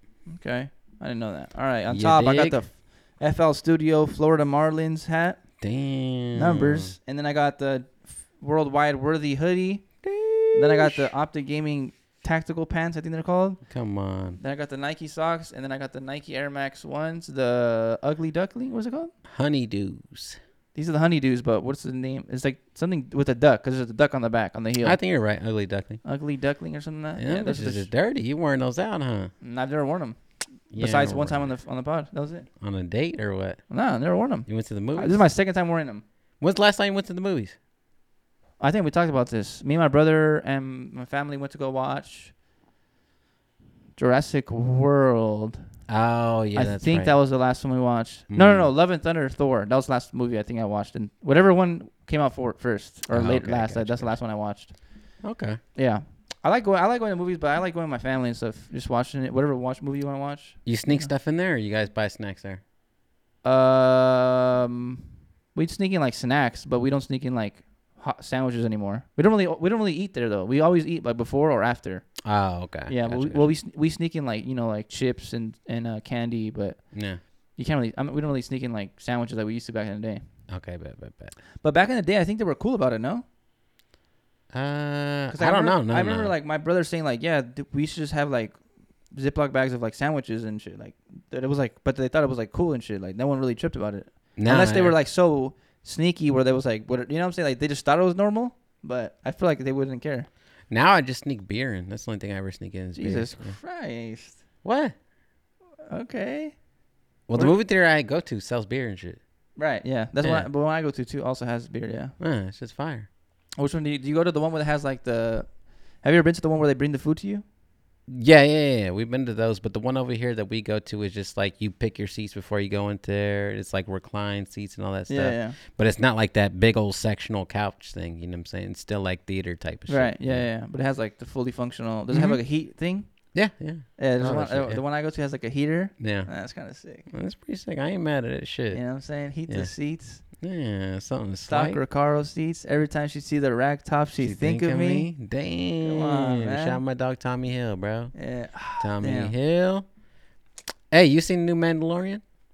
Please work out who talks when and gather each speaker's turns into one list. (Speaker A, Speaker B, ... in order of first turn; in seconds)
Speaker A: 0.3-5.4, 6.3-9.9, 10.5-13.6, 14.4-19.1, 20.8-25.0, 26.1-27.9, 29.4-30.2, 30.7-32.5, 33.7-36.0, 38.6-42.3, 44.0-45.7, 46.5-54.8, 55.8-61.1, 63.4-65.0, 65.5-72.2, 72.9-80.2, 81.6-83.2, 85.3-88.6, 89.1-100.3, 103.0-104.4, 105.9-106.6, 109.6-112.1, 113.6-115.5, 116.0-117.5, 125.1-125.6, 129.9-133.1, 134.0-137.1, 138.7-140.2, 141.5-145.1, 145.8-146.8, 148.2-149.3
Speaker B: 1.9-2.6, 5.6-7.0, 10.0-11.1, 13.7-14.4, 19.3-20.4, 24.8-26.0, 27.2-29.3, 30.7-31.5, 32.6-33.6, 34.5-35.2, 36.4-37.6, 45.9-47.1, 48.3-48.7, 53.1-54.2, 55.2-55.6, 60.6-62.6, 72.2-73.5, 76.9-77.2, 80.5-81.4, 84.5-86.3, 94.4-95.0, 100.7-103.6, 104.6-105.0, 107.3-109.2, 110.2-110.5, 112.2-113.1, 118.1-130.5, 132.1-132.4, 133.3-134.8, 136.0-136.3, 137.1-141.8, 144.2-149.8, 150.9-152.2